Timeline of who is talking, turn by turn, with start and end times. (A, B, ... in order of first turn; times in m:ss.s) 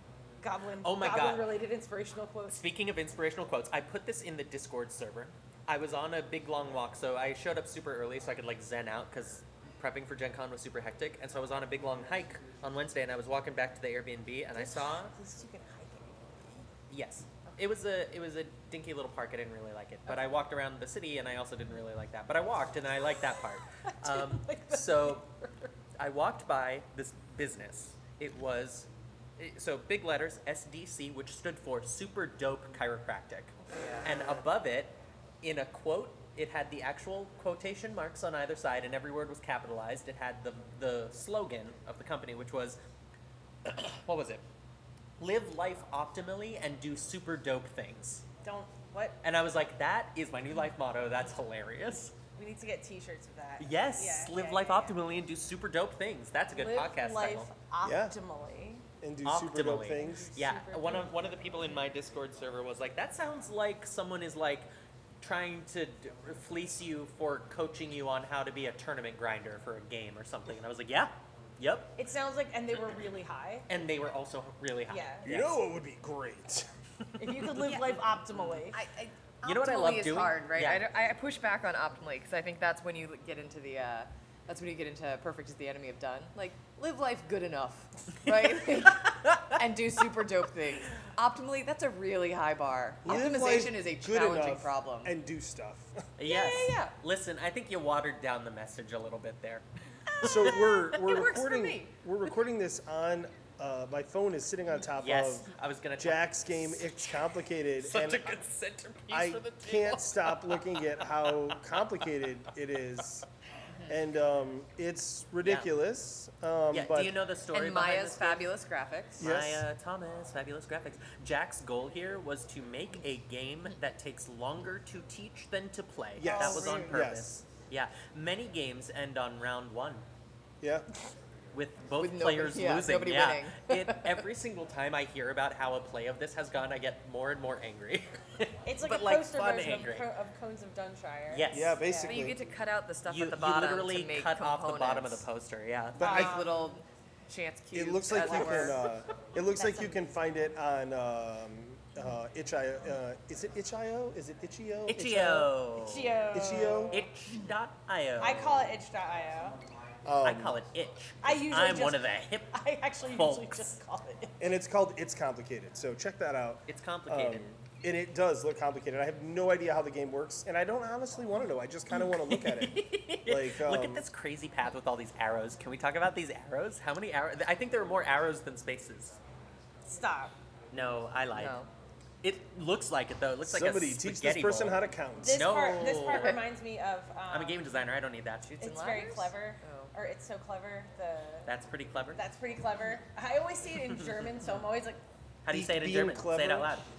0:00.4-0:02.6 A
0:00.8-0:01.5 B
0:02.5-0:15.2 B
0:14.5-0:16.2 A
0:16.9-0:25.3 B
0:24.0-0:25.5 A
0:26.0-0:42.8 B
0:33.8-0:34.2 A
0:43.6-0:44.4 B
0:45.2-0:48.2 B
0:48.4-0:49.2 A
0:49.2-0:52.2 B
0:52.4-0:55.0 A
0:53.6-0:57.5 B
0:56.5-0:58.9 A
0:57.8-0:58.2 C
0:59.0-1:00.3 C
0:59.2-1:04.7 B
1:00.0-1:01.2 A
1:05.2-1:12.0 B
1:12.0-1:13.7 A
1:13.7-1:15.6 B
1:14.9-1:15.3 A
1:15.2-1:16.7 C
1:17.2-1:18.8 A
1:17.2-1:17.5 B
1:18.3-1:18.7 B
1:18.7-1:35.1 D
1:19.4-1:20.8 B
1:28.5-1:29.5 B
1:33.0-1:36.1 C
1:36.2-1:40.6 B
1:36.3-1:36.9 D
1:40.2-1:48.4 C
1:40.9-1:41.8 D
1:45.0-1:47.2 B
1:47.8-1:51.8 B
1:49.1-1:53.3 C
1:53.9-1:57.1 C
1:55.4-1:55.7 B
1:56.7-1:58.5 B
1:57.5-1:59.3 D
1:59.2-1:59.6 C
1:59.2-2:10.1 B
2:06.2-2:07.5 C
2:06.2-2:07.0 A
2:10.6-2:10.9 C
2:11.5-2:20.1 B
2:12.0-2:14.2 D
2:18.6-2:22.2 A
2:21.3-2:21.9 B
2:21.5-2:22.4 C
2:22.1-2:25.3 D
2:23.0-2:26.3 B
2:26.0-2:26.7 A
2:26.0-2:28.8 D
2:26.0-2:26.4 C
2:27.7-2:35.5 C
2:28.2-2:28.7 A
2:29.6-2:30.1 A
2:34.9-2:36.2 B
2:35.8-2:37.1 A
2:36.3-2:37.0 C
2:36.9-2:38.7 B
2:38.2-2:39.6 A
2:40.0-2:40.6 C
2:40.2-2:43.8 B
2:41.2-2:44.5 A
2:44.4-2:54.0 C
2:46.7-2:47.6 B
2:51.9-2:59.2 B
2:59.8-3:00.3 A
3:00.7-3:01.6 B
3:01.3-3:01.7 D
3:02.2-3:06.4 B
3:03.4-3:05.5 C
3:05.2-3:07.6 A
3:06.1-3:06.4 D
3:07.3-3:08.5 B
3:08.5-3:09.9 D
3:08.6-3:11.5 A
3:11.5-3:12.2 B
3:12.1-3:15.0 A
3:13.9-3:14.2 B
3:15.4-3:16.9 B
3:15.5-3:16.8 C